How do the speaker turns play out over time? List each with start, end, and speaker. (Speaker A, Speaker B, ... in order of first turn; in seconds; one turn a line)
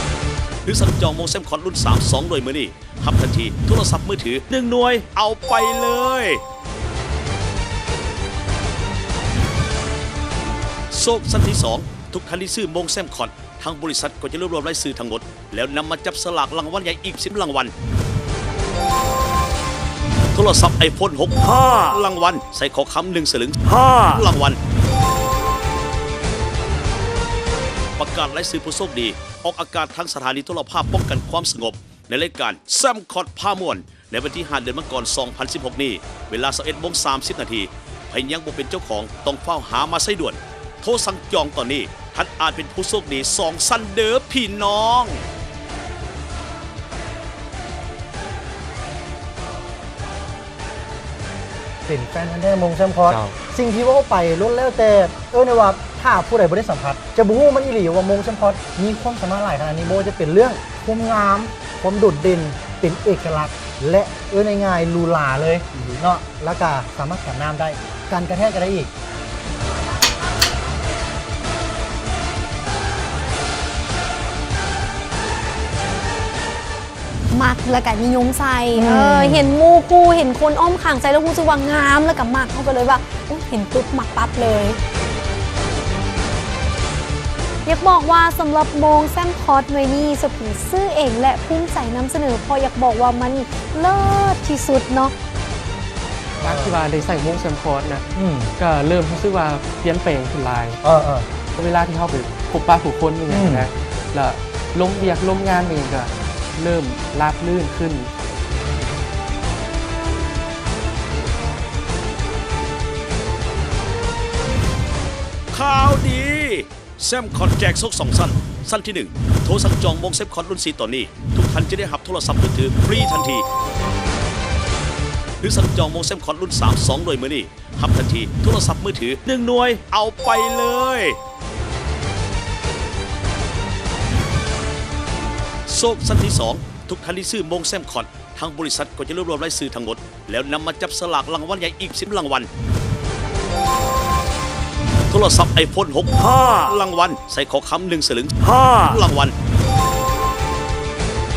Speaker A: 0.6-6.4
Speaker A: 10.9-17.7
Speaker A: 20.3-24.6
Speaker A: 28.0-45.2
Speaker B: 51.9-68.9
Speaker C: 77.3-84.8
Speaker B: 78.7-79.4
Speaker C: 87.6-95.1
Speaker B: 96.4-96.8
Speaker D: 96.4-100.8
Speaker B: 98.1-98.5
Speaker B: 100.8-101.3
Speaker D: 101.6-108.1
Speaker B: 103.3-103.7
Speaker A: 115.5-123.5
Speaker A: 125.4-131.2
Speaker A: 135.7-142.5
Speaker A: 145.1-149.3
Speaker D: 148.5-148.8